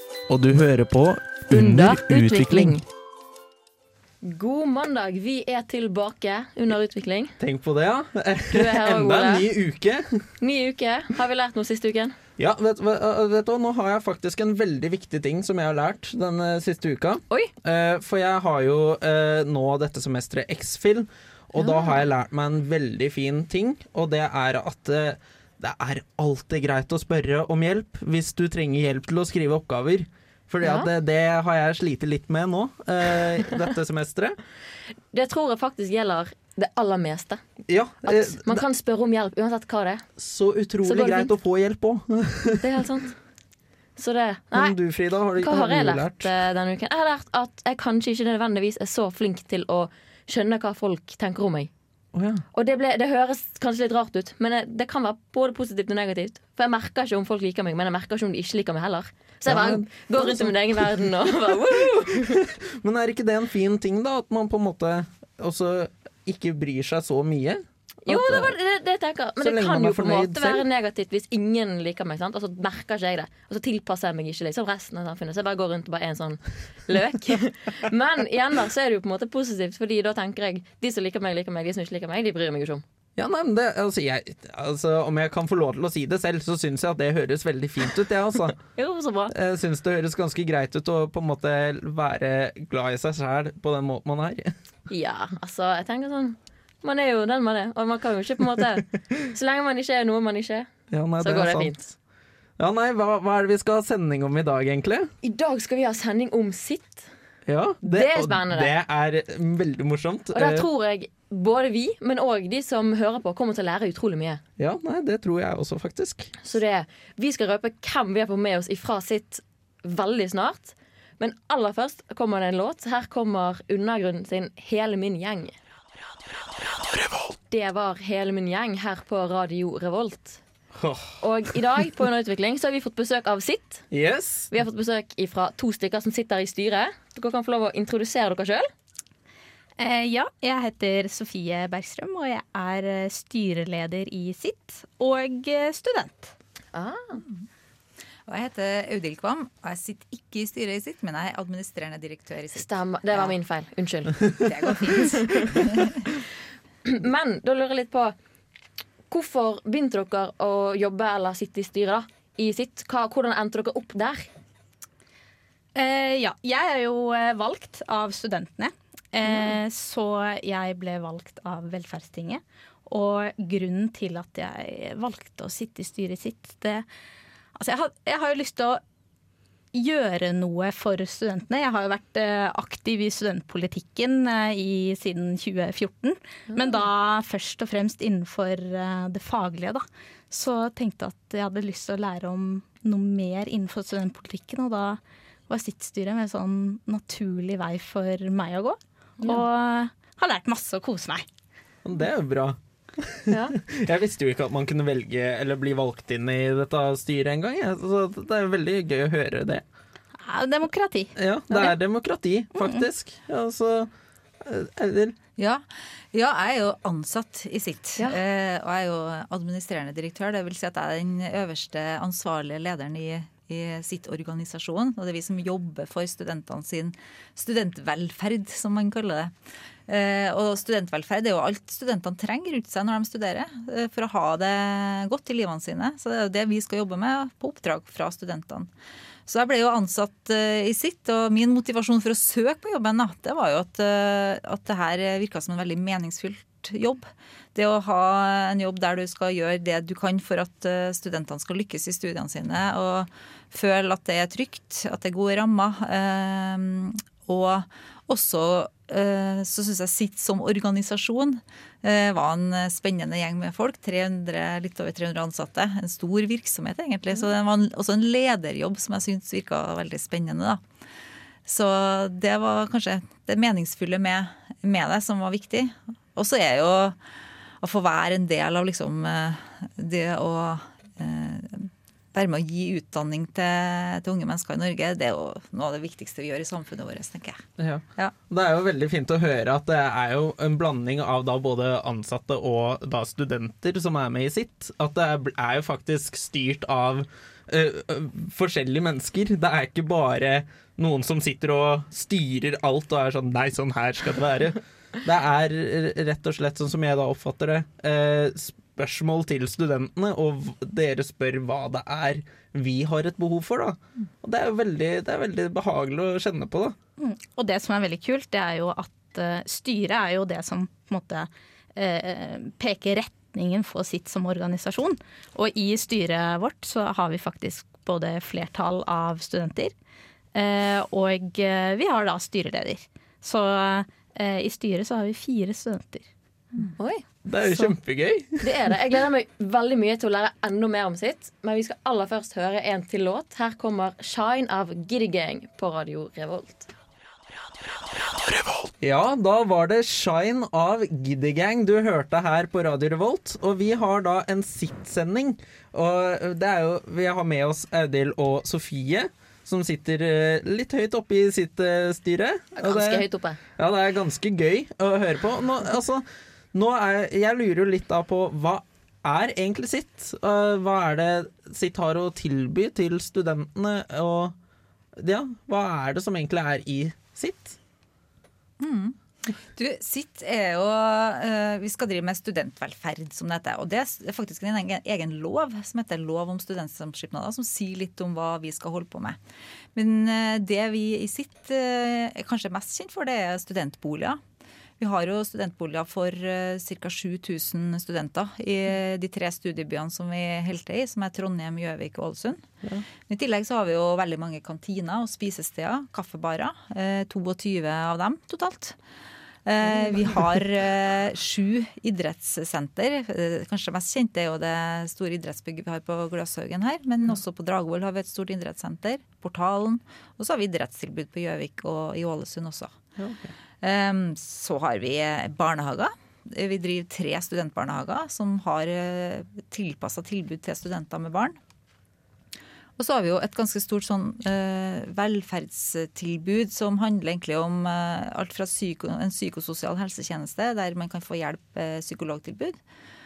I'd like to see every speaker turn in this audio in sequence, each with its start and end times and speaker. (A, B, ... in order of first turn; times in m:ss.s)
0:00.3-0:02.8 A
0:01.5-0:02.8 B
0:04.2-0:07.3 B
0:07.4-0:10.3 A
0:08.5-0:09.4 B
0:10.4-0:12.2 B
0:12.4-0:34.4 A
0:21.6-0:22.0 B
0:30.6-0:30.9 B
0:35.1-0:37.4 B
0:37.7-0:38.6 A
0:38.0-0:40.1 B
0:40.2-0:42.6 A
0:40.8-0:41.3 B
0:42.6-0:43.2 B
0:44.0-0:44.8 B
0:44.5-0:46.3 A
0:45.4-0:51.7 B
0:52.1-0:52.4 A
0:52.5-1:02.4 B
0:59.4-1:01.1 A
1:02.2-1:08.5 A
1:08.0-1:22.8 B
1:09.4-1:10.6 A
1:23.2-1:28.6 A
1:28.8-1:29.3 C
1:29.3-1:34.5 A
1:34.9-1:40.7 B
1:40.9-1:41.8 A
1:41.2-1:41.8 B
1:42.6-1:45.1 A
1:45.2-1:47.1 B
1:47.4-1:50.7 A
1:47.8-1:48.7 B
1:50.3-1:54.4 B
1:54.6-1:56.4 A
1:56.4-2:05.6 B
2:07.5-2:10.4 B
2:10.8-2:11.2 A
2:11.2-2:13.8 B
2:13.9-2:14.5 A
2:14.5-2:18.7 B
2:19.8-2:26.3 C
2:26.7-2:27.2 B
2:28.3-2:33.3 D
2:32.5-2:36.2 B
2:34.4-2:36.0 D
2:36.8-2:38.1 B
2:39.1-2:44.3 B
2:45.7-2:56.8 C
2:57.5-2:58.8 C
2:59.7-3:21.2 C
3:06.5-3:06.8 B
3:21.8-3:29.6 A
3:23.3-3:23.6 B
3:30.2-3:31.1 C
3:31.2-3:33.9 A
3:32.6-3:32.8 C
3:34.4-3:35.2 A
3:35.4-3:49.3 D
3:49.9-3:58.7 D
3:59.2-4:30.6 D
4:31.4-4:37.0 D
4:37.6-4:47.4 D
4:47.6-5:16.8 A
5:17.0-5:29.7 C
5:30.3-5:36.1 C
5:36.8-5:37.0 B
5:37.2-5:38.5 A
5:37.4-5:37.7 C
5:38.4-5:46.7 B
5:48.8-6:03.0 A
6:02.6-6:03.4 B
6:03.6-6:14.3 A
6:15.0-6:17.6 A
6:18.6-6:29.2 D
6:29.7-6:34.2 D
6:34.8-6:42.5 D
6:43.0-6:48.8 D
6:49.4-7:02.8 D
7:03.0-7:03.3 A
7:03.6-7:11.4 D
7:12.8-7:22.6 D